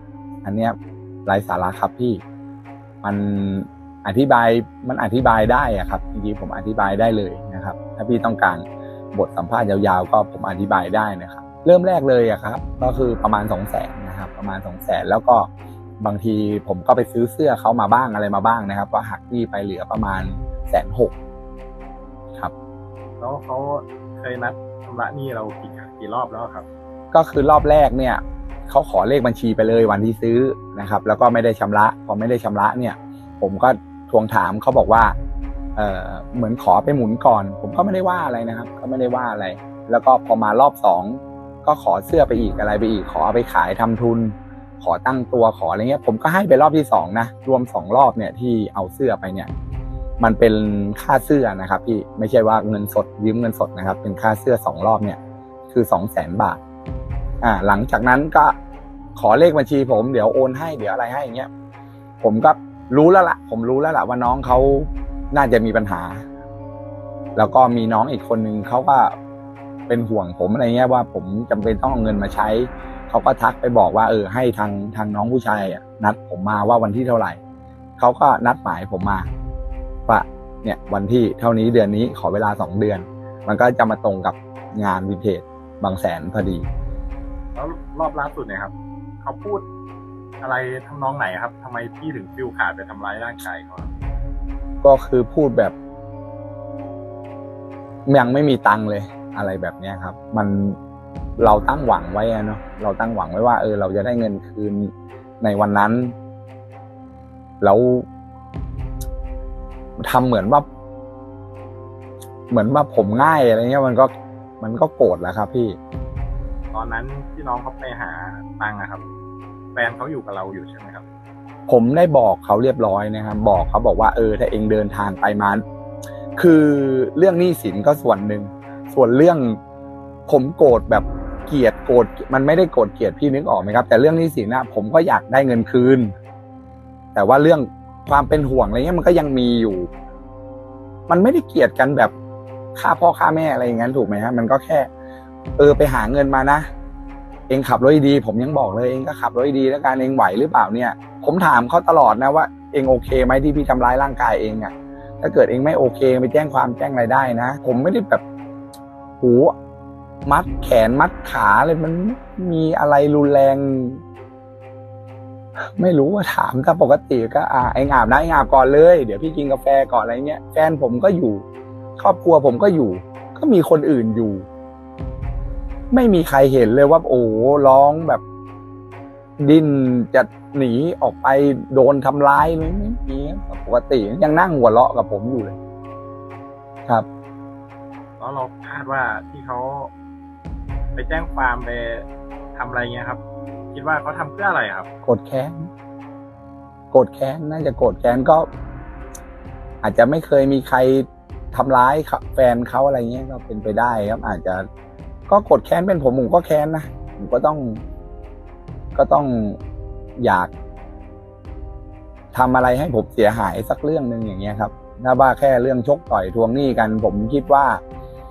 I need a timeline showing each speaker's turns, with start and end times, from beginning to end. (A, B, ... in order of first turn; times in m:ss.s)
0:00.4-0:02.2 A
0:03.0-0:15.5 A
0:16.0-0:21.1 A
0:23.2-0:26.7 B
0:27.1-0:35.2 A
0:35.8-0:49.5 A
0:50.2-0:55.2 A
0:55.7-0:56.6 A
0:57.4-0:58.6 A
0:59.2-1:01.5 A
1:02.2-1:06.3 A
1:07.4-1:09.2 A
1:09.9-1:17.4 A
1:18.0-1:19.3 A
1:20.1-1:26.7 A
1:27.6-1:29.6 B
1:30.4-1:33.9 B
1:34.8-1:35.7 A
1:38.1-1:40.8 A
1:41.4-1:46.1 A
1:47.6-1:48.1 A
1:50.0-1:50.6 A
1:52.5-1:55.8 A
1:56.7-1:59.0 B
1:59.8-2:01.0 B
2:01.7-2:05.6 A
2:06.4-2:09.6 A
2:10.3-2:16.1 A
2:17.2-2:19.9 A
2:21.1-2:22.1 A
2:22.8-2:24.9 A
2:25.6-2:26.7 A
2:27.5-2:38.2 A
2:39.2-2:39.5 A
2:40.3-2:44.0 A
2:45.8-2:51.4 A
2:52.0-2:54.5 A
2:55.9-2:58.2 A
2:59.4-3:05.6 A
3:08.2-3:09.9 B
3:11.0-3:13.2 B
3:13.7-3:14.9 B
3:15.0-3:15.7 A
3:16.9-3:18.5 A
3:19.8-3:24.7 A
3:25.3-3:27.8 A
3:29.0-3:29.6 A
3:30.2-3:30.5 A
3:32.3-3:37.8 A